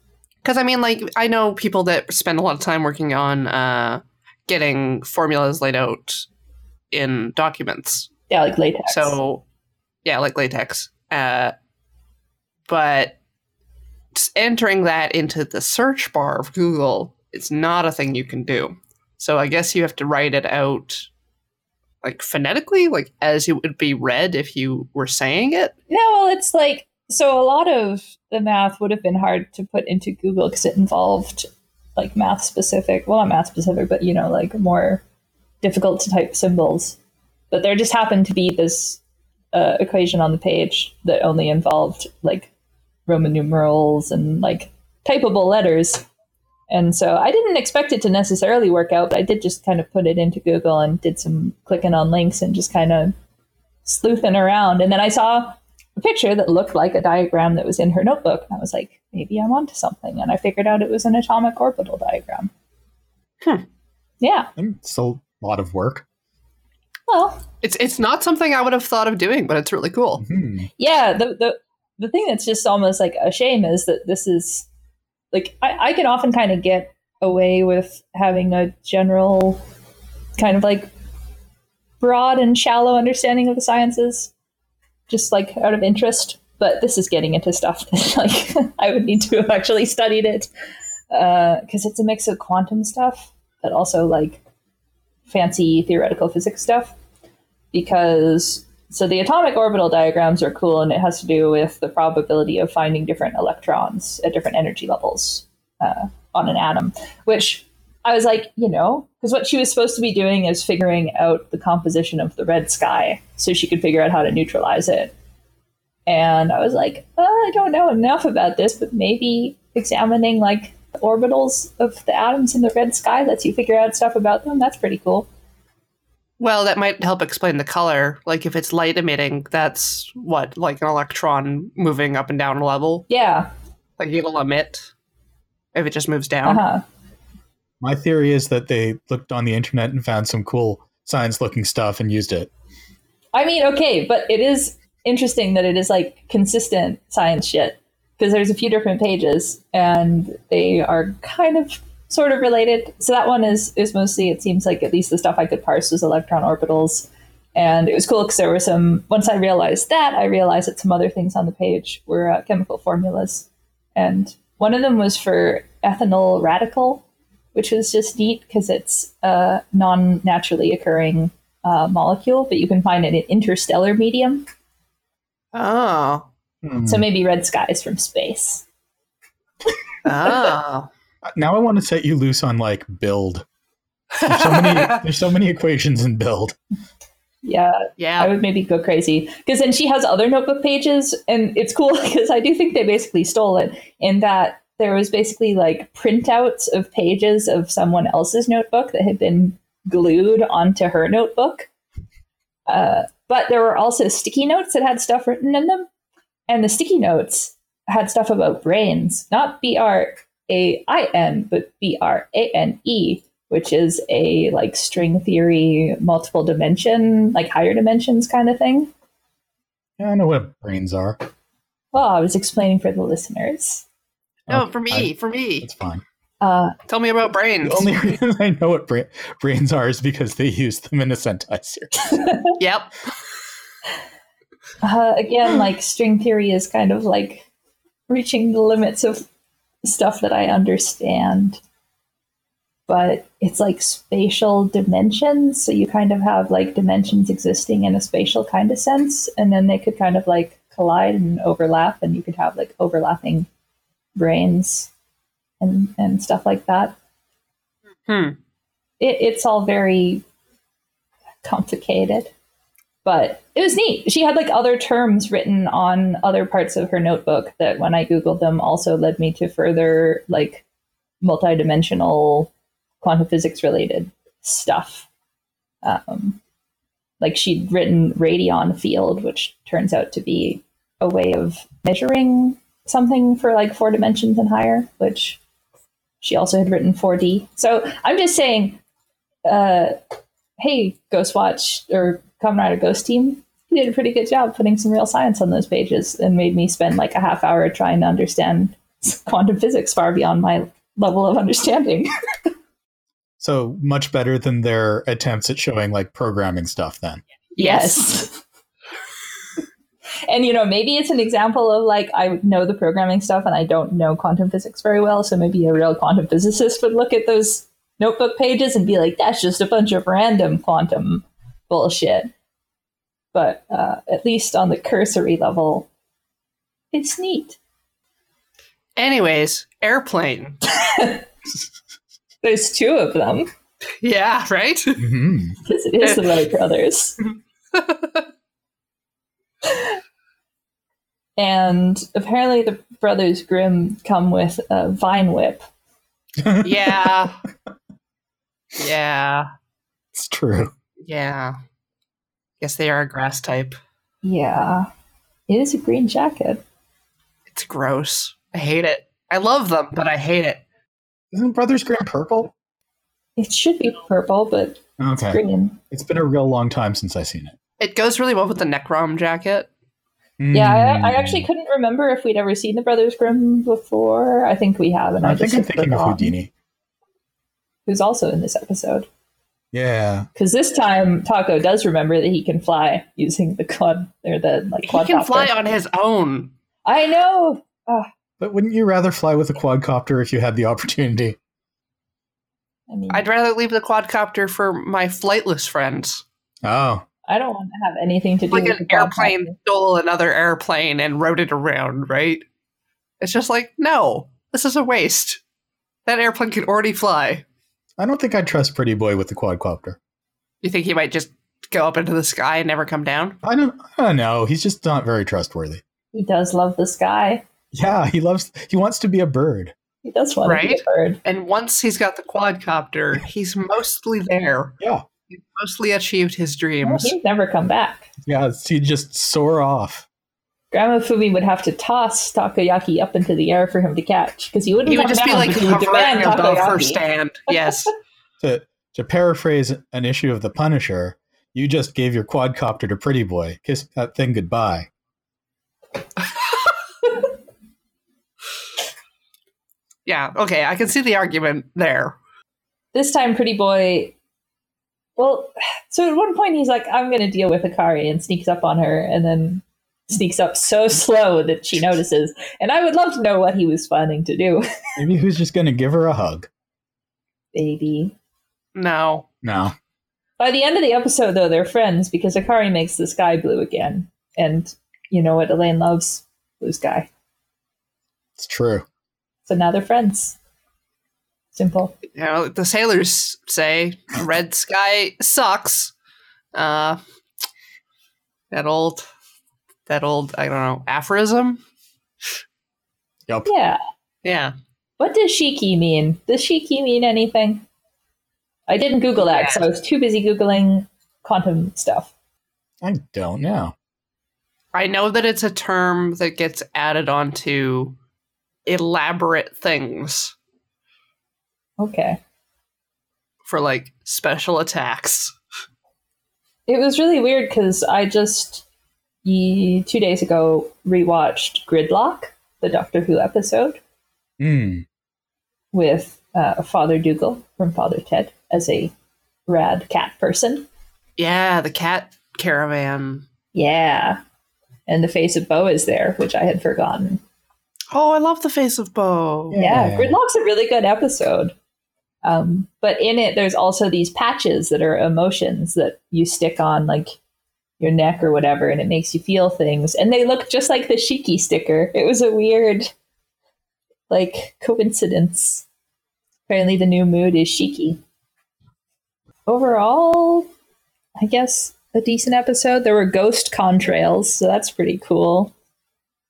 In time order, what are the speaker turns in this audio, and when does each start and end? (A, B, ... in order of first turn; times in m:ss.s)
0:00.4-0:06.2 A
0:06.9-0:08.1 A
0:08.3-0:09.2 B
0:08.9-0:09.4 A
0:10.0-0:11.5 A
0:12.7-0:13.2 A
0:14.1-0:21.1 A
0:22.0-0:25.8 A
0:25.9-0:35.0 B
0:35.6-0:37.0 B
0:37.5-0:39.0 B
0:39.5-0:42.5 B
0:43.1-0:46.0 B
0:46.7-0:53.1 B
0:53.9-1:02.5 B
1:04.2-1:04.5 B
1:04.6-1:06.0 C
1:07.1-1:07.4 B
1:07.6-1:10.2 A
1:10.2-1:10.7 C
1:10.8-1:14.6 B
1:15.3-1:19.6 B
1:20.4-1:20.9 B
1:22.0-1:24.3 B
1:25.1-1:30.5 B
1:31.1-1:34.4 B
1:35.3-1:36.9 B
1:37.7-1:55.1 B
1:56.1-2:05.3 B
2:06.4-2:13.1 A
2:13.1-2:13.5 B
2:14.0-2:14.9 A
2:15.7-2:16.6 A
2:16.4-2:16.8 B
2:17.8-2:22.5 C
2:23.3-2:54.4 B
2:55.5-2:56.3 A
2:56.6-2:57.1 C
2:56.8-2:58.6 B
3:00.0-3:00.9 A
3:01.2-3:03.4 C
3:04.1-3:05.0 A
3:04.2-3:06.6 C
3:07.4-3:21.7 B
3:08.0-3:08.3 A
3:22.7-3:25.9 B
3:26.5-3:38.9 B
3:40.0-3:41.2 C
3:41.9-3:43.8 B
3:44.5-3:45.7 A
3:44.5-3:46.0 C
3:46.4-3:46.8 B
3:46.9-3:47.9 A
3:47.6-3:52.1 C
3:52.6-3:53.1 A
3:54.8-3:57.5 B
3:58.1-3:59.2 B
3:59.8-4:01.6 B
4:02.9-4:13.5 B
4:14.2-4:14.9 B
4:15.6-4:17.0 B
4:18.1-4:18.4 A
4:19.0-4:20.2 B
4:21.4-4:22.3 B
4:23.0-4:30.6 B
4:31.2-4:32.5 B
4:33.0-4:35.1 B
4:35.8-4:36.4 B
4:37.2-4:45.4 B
4:46.2-4:48.8 B
4:49.4-4:50.0 B
4:50.6-5:02.1 B
5:03.4-5:07.2 C
5:07.6-5:08.0 A
5:07.6-5:08.4 B
5:10.3-5:22.3 B
5:23.3-5:25.9 B
5:26.9-5:27.6 B
5:29.0-5:30.6 A
5:30.8-5:31.2 B
5:32.4-5:33.5 B
5:34.0-5:35.1 A
5:35.0-5:35.6 C
5:35.7-5:37.2 B
5:36.0-5:36.3 A
5:37.7-5:38.2 A
5:39.6-5:40.0 B
5:41.4-5:45.7 B
5:46.4-5:47.2 C
5:46.6-5:47.4 A
5:48.8-5:49.5 A
5:50.1-5:50.7 C
5:51.0-5:51.6 A
5:52.6-5:53.8 A
5:54.2-5:54.9 B
5:55.5-5:56.6 B
5:57.5-6:00.6 A
6:01.3-6:02.5 C
6:03.4-6:05.8 B
6:05.0-6:07.6 C
6:07.8-6:09.7 A
6:10.4-6:11.5 C
6:10.5-6:16.3 B
6:15.2-6:16.5 C
6:17.8-6:19.1 B
6:19.7-6:20.3 C
6:20.3-6:25.6 B
6:24.8-6:26.5 A
6:26.8-6:28.1 B
6:28.4-6:31.4 C
6:32.9-6:33.2 B
6:33.1-6:36.2 A
6:36.6-6:37.0 C
6:37.3-6:39.5 B
6:38.5-6:42.4 A
6:43.2-6:45.4 A
6:46.1-6:47.4 A
6:48.0-6:50.0 C
6:50.6-6:53.4 A
6:53.4-6:55.8 C
6:56.1-6:57.4 B
6:57.7-6:59.7 C
7:00.0-7:01.2 B
7:00.4-7:04.8 A
7:05.3-7:07.2 A
7:06.8-7:08.1 B
7:08.2-7:10.1 C
7:10.7-7:17.5 B
7:14.8-7:17.9 A
7:18.4-7:24.9 C
7:30.1-7:32.2 A
7:32.9-7:34.2 B
7:35.2-7:44.7 B
7:45.0-7:46.5 C
7:47.5-7:48.1 B
7:48.7-7:49.2 A
7:49.4-7:49.7 C
7:50.4-7:57.1 B
7:58.4-7:58.8 C
7:59.4-8:00.4 B
8:01.5-8:01.9 B
8:02.1-8:05.9 A
8:06.5-8:07.0 A
8:08.5-8:09.1 A
8:09.9-8:11.6 A
8:13.3-8:13.5 C
8:13.4-8:13.8 B
8:14.2-8:14.5 A
8:15.0-8:17.6 B
8:18.7-8:22.1 B
8:19.2-8:19.6 A
8:22.8-8:23.7 C
8:24.7-8:28.0 A
8:28.7-8:30.3 A
8:31.8-8:32.2 B
8:33.4-8:35.4 A
8:36.7-8:38.6 B
8:39.2-8:43.8 B
8:44.4-8:44.8 C
8:45.7-8:48.9 B
8:49.5-8:50.6 B
8:51.2-8:53.2 A
8:53.5-8:54.2 B
8:54.9-8:57.2 B
8:57.9-8:59.6 A
8:59.5-9:00.2 C
8:59.5-9:01.5 B
9:02.2-9:07.2 B
9:07.8-9:12.9 B
9:14.1-9:15.6 B
9:16.5-9:18.0 B
9:19.5-9:20.5 B
9:21.2-9:25.5 B